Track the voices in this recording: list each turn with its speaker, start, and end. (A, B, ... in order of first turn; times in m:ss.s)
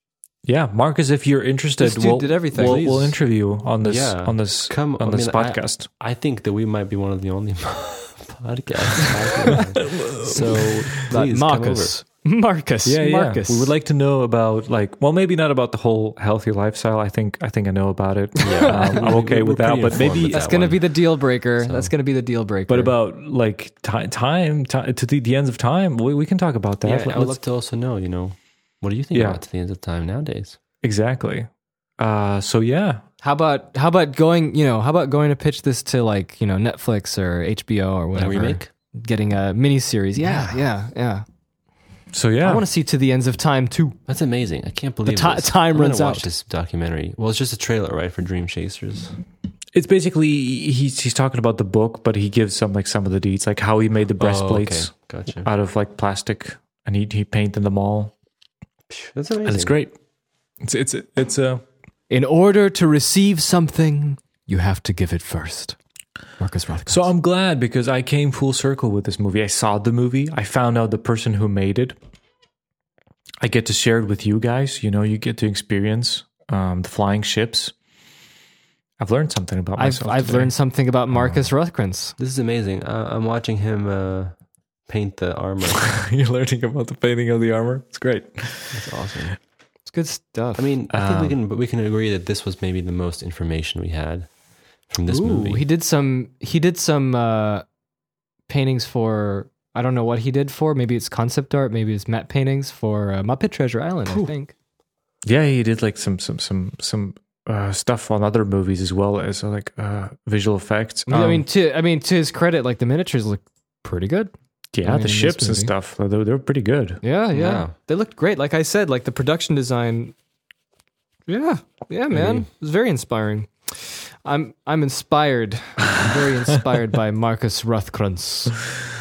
0:00.4-0:05.9 A
0:01.8-0:03.1 B
0:02.5-0:03.2 C
0:03.8-0:12.0 C
0:09.9-0:10.8 A
0:11.1-0:13.7 B
0:12.8-0:20.4 A
0:18.4-0:21.9 C
0:20.0-0:22.9 B
0:22.7-0:27.4 A
0:26.8-0:30.6 C
0:29.1-0:29.4 A
0:30.8-0:33.0 A
0:33.2-0:41.2 B
0:38.1-0:38.7 C
0:40.2-0:40.6 C
0:42.1-0:42.6 A
0:42.4-0:44.2 B
0:44.0-0:49.2 C
0:45.0-0:46.3 B
0:49.7-0:58.1 A
0:54.2-0:55.5 C
0:58.9-0:59.8 C
0:59.4-1:00.0 A
1:00.6-1:01.6 A
1:02.1-1:05.8 B
1:06.4-1:07.1 B
1:06.9-1:12.0 A
1:13.4-1:17.7 A
1:19.0-1:21.5 A
1:19.8-1:22.2 B
1:22.2-1:26.0 C
1:26.0-1:28.9 A
1:28.7-1:29.4 C
1:29.8-1:30.7 B
1:30.5-1:35.6 C
1:30.9-1:31.4 A
1:35.1-1:37.6 B
1:38.5-1:44.5 B
1:45.2-1:51.4 A
1:51.1-1:55.7 B
1:54.7-1:57.0 A
1:57.0-2:00.1 B
1:57.3-1:57.7 C
2:01.3-2:08.6 B
2:02.1-2:02.5 C